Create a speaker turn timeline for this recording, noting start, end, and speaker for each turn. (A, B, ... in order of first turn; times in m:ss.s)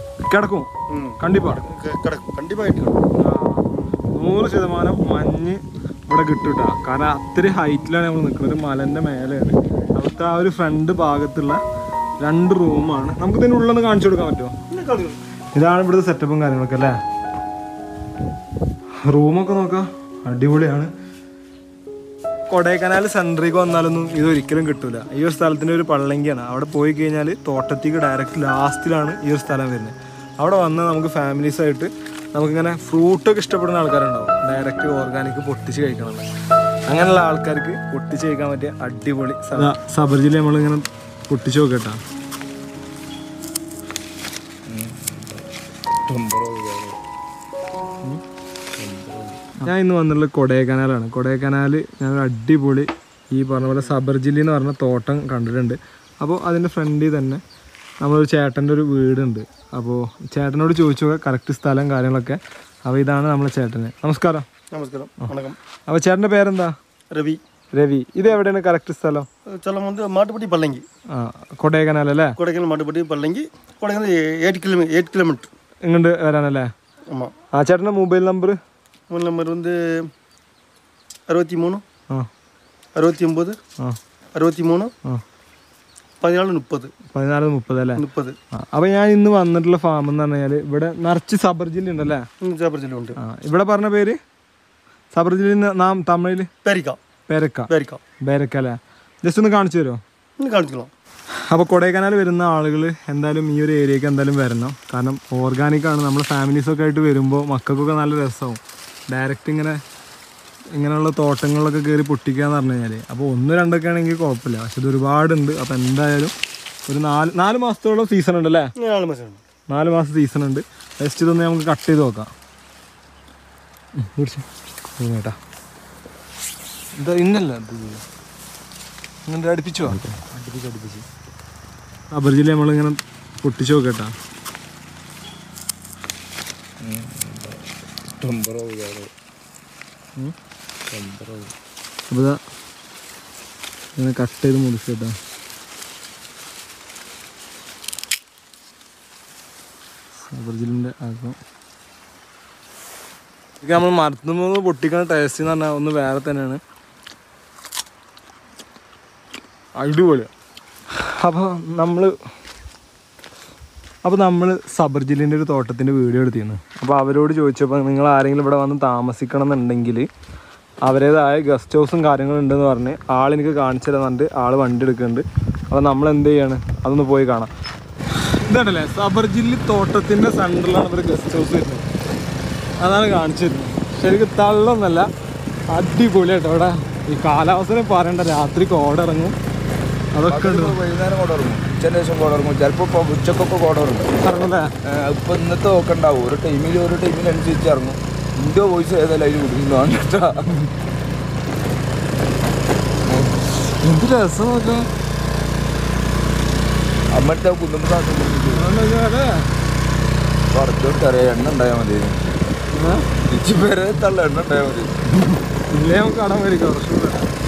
0:00.3-0:00.7 A
0:00.9-0:03.1 B
0:01.2-0:01.6 A
0:03.2-0:11.6 A
0:12.2-0:14.5 A
0:14.7-0:15.2 B
0:15.5-0:17.0 A
0:19.0-0:20.9 A
0:22.5-0:36.2 A
0:36.9-0:42.0 A
0:44.7-0:45.5 C
0:46.1-0:47.0 C
0:48.8-0:49.6 C
0:49.6-0:57.4 A
0:58.0-1:04.4 A
1:04.7-1:05.6 B
1:05.9-1:06.7 A
1:07.1-1:07.4 B
1:07.7-1:09.3 A
1:09.5-1:10.8 B
1:11.1-1:12.4 A
1:12.4-1:15.5 B
1:15.8-1:16.7 A
1:17.5-1:18.6 A
1:19.1-1:20.1 B
1:21.3-1:21.8 B
1:22.9-1:23.6 B
1:24.3-1:24.9 B
1:26.2-1:26.9 B
1:27.1-1:28.0 A
1:28.0-1:28.4 B
1:28.7-1:32.2 A
1:32.4-1:33.2 B
1:33.2-1:34.2 A
1:35.1-1:36.5 A
1:36.6-1:37.0 B
1:37.3-1:37.7 A
1:37.7-1:38.0 B
1:38.2-1:40.0 A
1:40.4-1:40.9 B
1:41.5-1:49.8 A
1:50.7-1:56.3 A
1:56.9-1:58.7 A
1:58.8-1:59.4 B
1:59.7-2:02.3 A
2:04.0-2:04.4 A
2:05.0-2:05.4 A
2:07.0-2:08.0 A
2:09.2-2:10.0 A
2:09.9-2:11.0 C
2:12.1-2:14.1 A
2:16.8-2:19.1 C
2:20.9-2:21.5 C
2:22.1-2:22.4 A
2:24.0-2:25.2 A
2:30.2-2:31.4 A
2:33.6-2:36.6 A
2:39.8-2:40.3 A
2:41.0-2:42.1 A
2:44.0-2:50.1 A
2:50.8-2:57.5 A
2:58.1-3:01.8 A
3:02.8-3:05.1 A
3:05.7-3:09.4 A
3:10.1-3:10.8 A
3:10.3-3:14.1 C
3:14.2-3:14.7 A
3:14.8-3:20.5 C
3:23.1-3:23.3 C
3:23.4-3:24.9 A
3:27.1-3:28.7 C
3:28.5-3:29.4 A
3:30.5-3:32.2 C
3:32.7-3:33.0 A
3:33.2-3:34.9 C
3:35.2-3:37.3 A